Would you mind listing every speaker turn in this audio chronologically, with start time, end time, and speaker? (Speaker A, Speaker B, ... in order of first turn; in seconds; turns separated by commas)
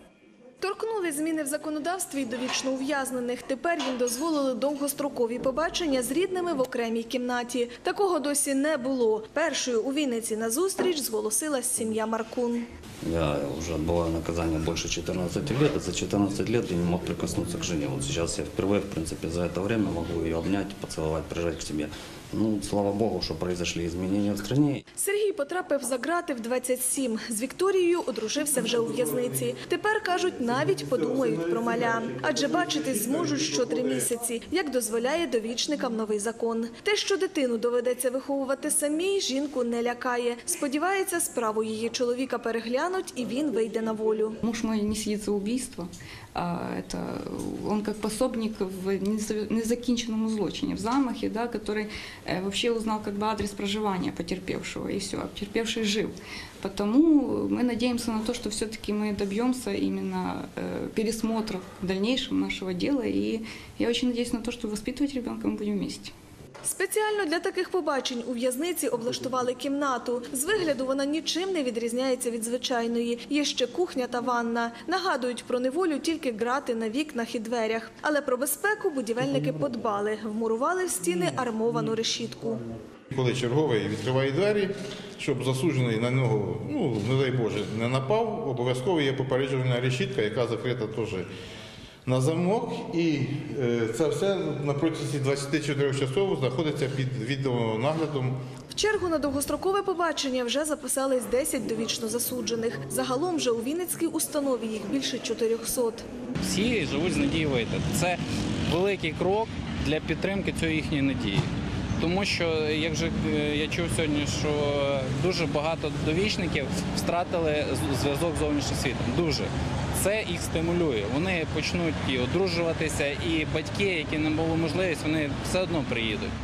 Speaker A: 0.6-12.7, Speaker B: 13.0-24.8, Speaker A: 24.9-44.4, Speaker C: 44.4-66.1, Speaker A: 66.6-82.6, Speaker D: 83.1-91.3, Speaker D: 92.0-98.4, Speaker A: 98.7-106.0, Speaker E: 106.4-111.5, Speaker E: 112.0-126.3